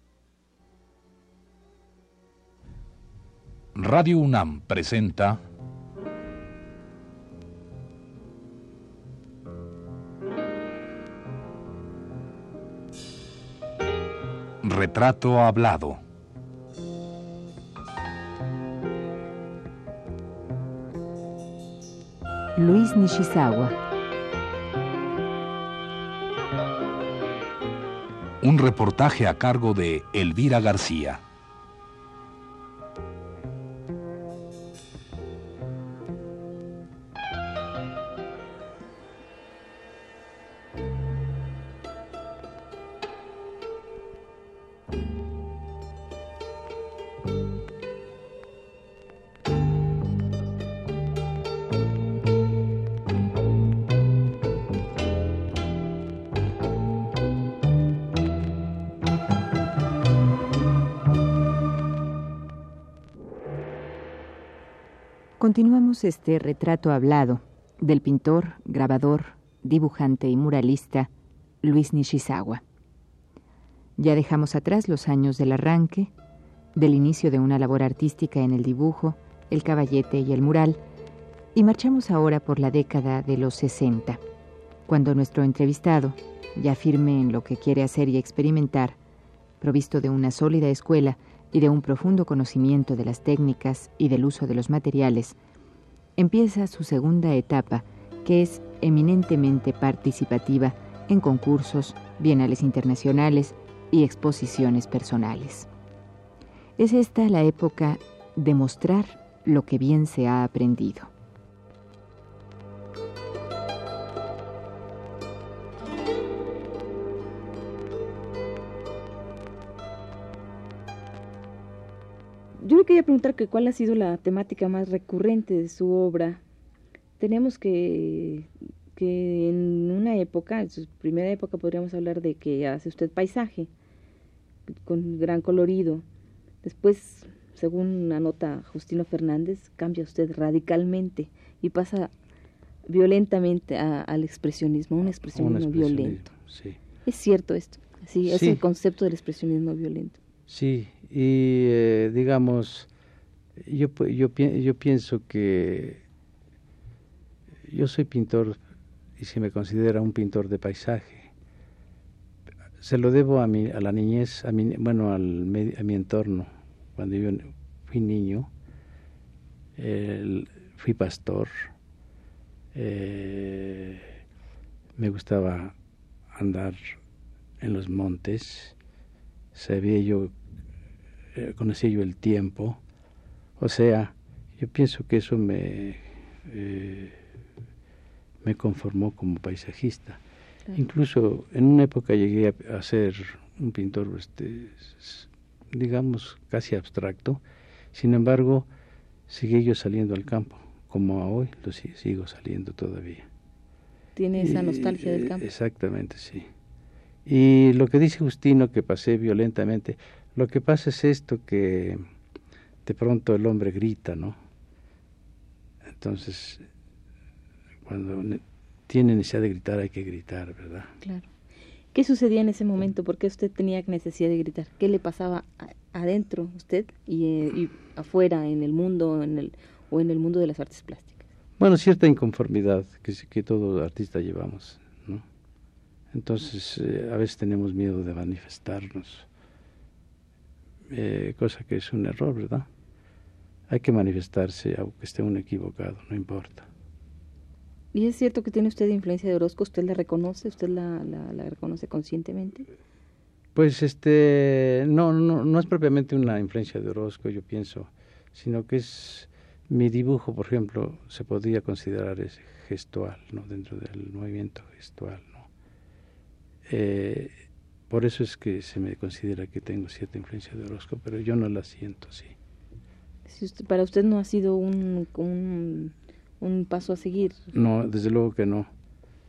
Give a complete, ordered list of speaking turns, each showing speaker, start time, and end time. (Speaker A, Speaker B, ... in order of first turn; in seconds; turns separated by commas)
Speaker A: 3.7-5.4, Speaker A: 14.6-16.0, Speaker B: 22.6-23.7, Speaker A: 28.4-31.2, Speaker B: 65.4-71.1, Speaker B: 71.6-72.6, Speaker B: 74.0-76.1, Speaker B: 76.7-80.8, Speaker B: 81.5-84.2, Speaker B: 84.9-89.0, Speaker B: 89.6-95.3, Speaker B: 96.2-105.7, Speaker B: 106.8-111.1, Speaker C: 122.6-126.4, Speaker C: 127.2-133.7, Speaker C: 134.8-136.0, Speaker C: 136.6-142.1, Speaker C: 142.8-146.2, Speaker D: 145.3-146.8, Speaker C: 147.0-150.2, Speaker D: 148.2-148.6, Speaker D: 150.5-152.9, Speaker D: 153.6-156.0, Speaker D: 157.6-158.6, Speaker D: 159.2-161.3, Speaker D: 162.8-168.5, Speaker D: 169.8-171.7, Speaker D: 172.7-174.1, Speaker D: 175.0-175.7, Speaker D: 176.3-177.0, Speaker D: 177.6-178.7, Speaker D: 179.5-180.3, Speaker D: 181.3-182.8, Speaker D: 183.6-187.2, Speaker D: 188.4-190.2, Speaker D: 190.7-197.4, Speaker D: 197.9-198.7, Speaker D: 199.3-203.3, Speaker C: 204.2-205.4, Speaker D: 204.4-206.5, Speaker D: 207.2-212.0, Speaker D: 212.8-214.4, Speaker D: 215.9-216.6, Speaker D: 217.8-220.9, Speaker C: 221.0-221.3, Speaker C: 221.9-231.2, Speaker D: 231.6-235.2, Speaker D: 236.1-239.3, Speaker D: 240.9-242.7, Speaker D: 243.7-246.7, Speaker C: 247.9-252.7, Speaker D: 253.5-265.5, Speaker D: 266.7-267.3, Speaker D: 267.9-272.4, Speaker C: 273.2-277.4, Speaker D: 277.5-278.7